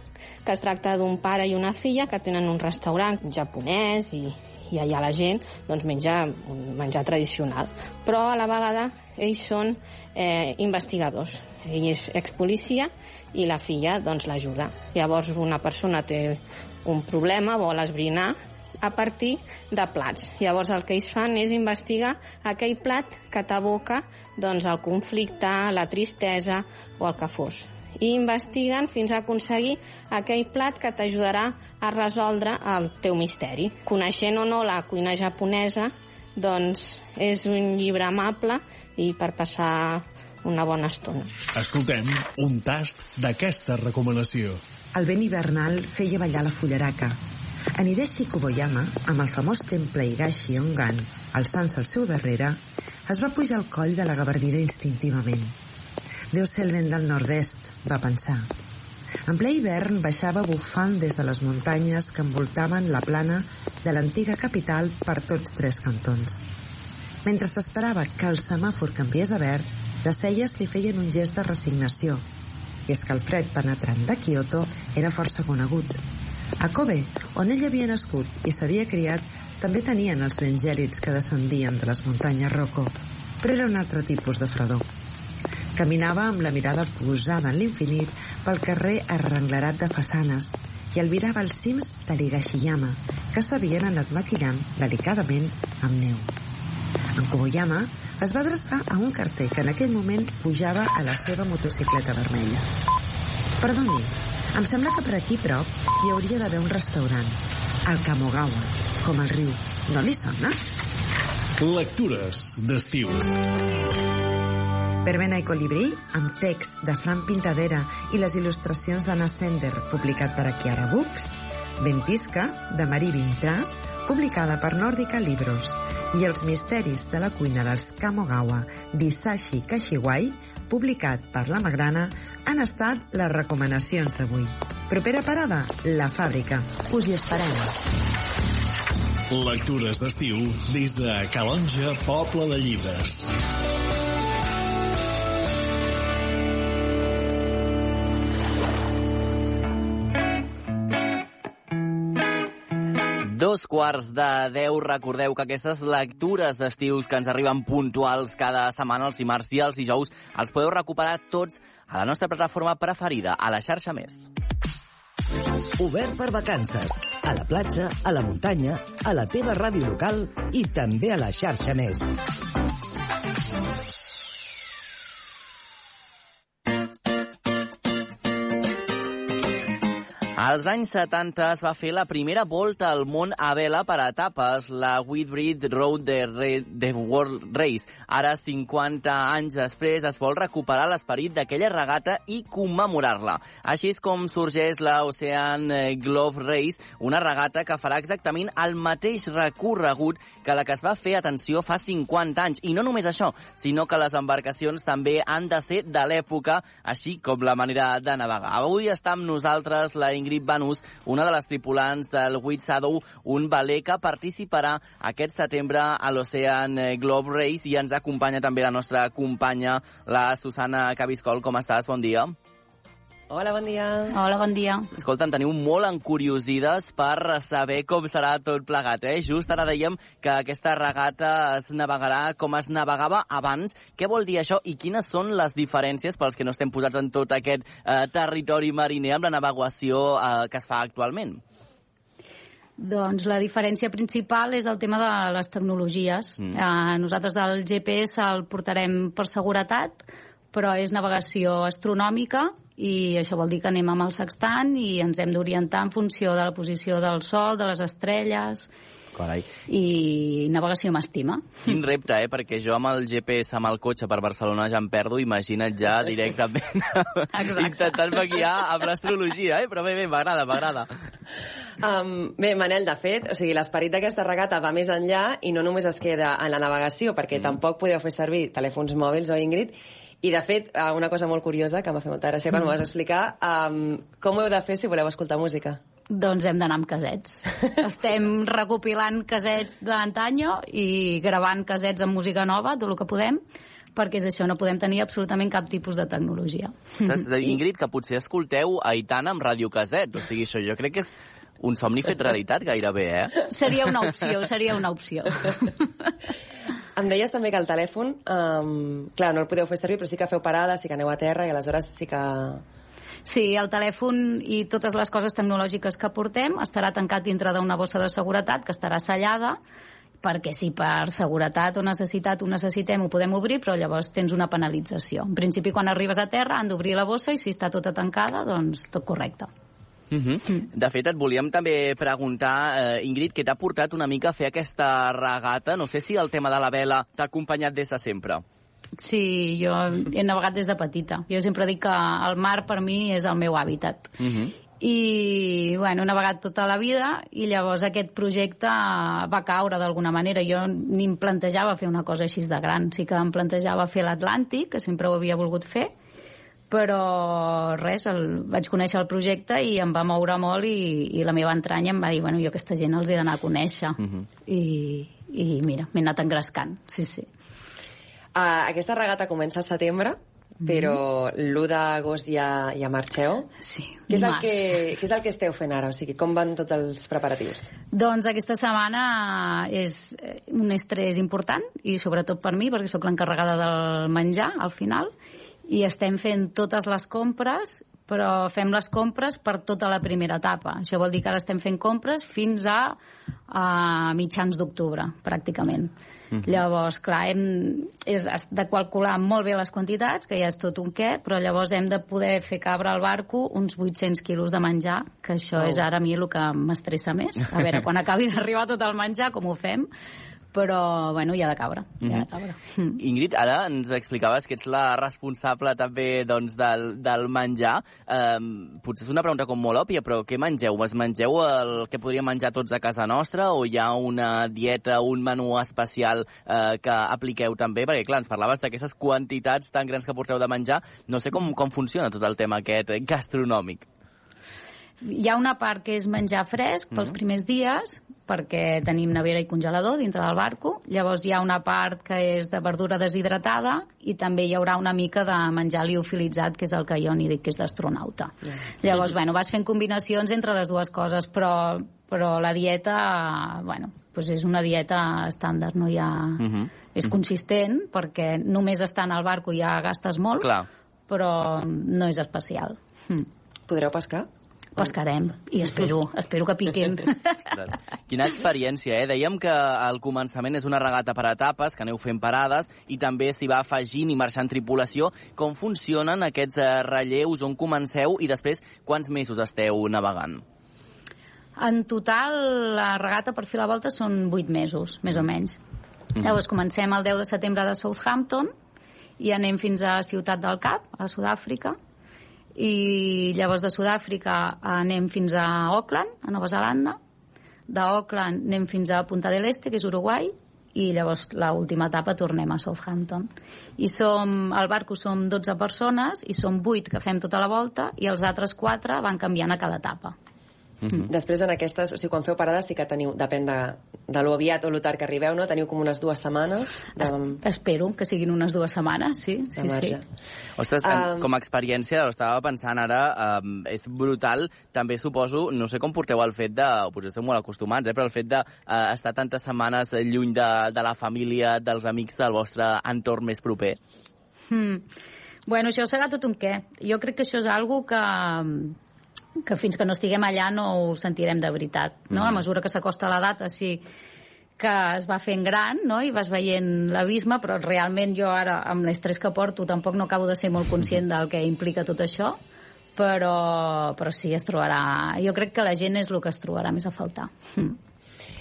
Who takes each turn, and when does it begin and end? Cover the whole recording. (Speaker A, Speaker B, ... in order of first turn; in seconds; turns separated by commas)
Speaker A: 0.4-41.3, Speaker B: 41.5-44.6, Speaker C: 44.9-47.2, Speaker C: 47.8-55.5, Speaker C: 56.3-58.5, Speaker C: 59.3-66.5, Speaker C: 67.2-72.2, Speaker C: 72.9-76.0, Speaker C: 76.6-84.9, Speaker C: 85.7-96.3, Speaker C: 97.2-102.7, Speaker C: 103.6-110.6, Speaker B: 111.6-113.4, Speaker C: 115.0-137.8, Speaker B: 139.3-143.3, Speaker D: 153.2-164.3, Speaker E: 165.8-172.2, Speaker D: 180.4-222.3, Speaker F: 223.3-224.2, Speaker G: 224.1-224.9, Speaker D: 224.9-241.4, Speaker G: 242.8-258.7, Speaker D: 259.1-259.4, Speaker G: 259.7-261.6, Speaker D: 261.6-270.9, Speaker G: 267.3-267.8, Speaker F: 271.8-285.8, Speaker G: 286.1-293.4, Speaker G: 293.9-296.9, Speaker D: 297.0-303.3, Speaker G: 303.5-305.9, Speaker F: 306.9-312.6, Speaker G: 313.2-319.6, Speaker G: 320.2-329.5, Speaker D: 330.1-338.4, Speaker G: 339.0-344.1, Speaker D: 344.2-344.5, Speaker G: 344.8-355.9, Speaker G: 356.7-367.3, Speaker D: 364.0-364.2, Speaker F: 368.3-373.5, Speaker G: 370.6-371.0, Speaker G: 373.6-374.8, Speaker F: 374.1-377.7, Speaker G: 377.9-385.1, Speaker G: 385.7-393.0, Speaker G: 393.5-395.9, Speaker G: 396.4-409.9, Speaker G: 410.5-413.0, Speaker D: 412.0-412.3, Speaker D: 413.0-433.9, Speaker G: 435.0-460.5, Speaker D: 456.4-457.1, Speaker D: 460.4-460.6, Speaker G: 461.1-463.3, Speaker F: 463.7-464.3, Speaker G: 464.8-467.3, Speaker D: 467.5-480.4, Speaker G: 481.6-485.6, Speaker G: 486.2-488.5, Speaker G: 489.2-491.8, Speaker G: 492.6-497.0, Speaker G: 497.7-510.1, Speaker F: 511.1-517.4, Speaker G: 517.0-520.0, Speaker F: 519.5-520.0, Speaker D: 520.6-533.8, Speaker F: 520.8-521.3, Speaker G: 534.5-534.8, Speaker G: 535.5-538.8, Speaker G: 539.4-543.8, Speaker D: 542.1-542.4, Speaker G: 544.6-552.4, Speaker G: 553.0-557.8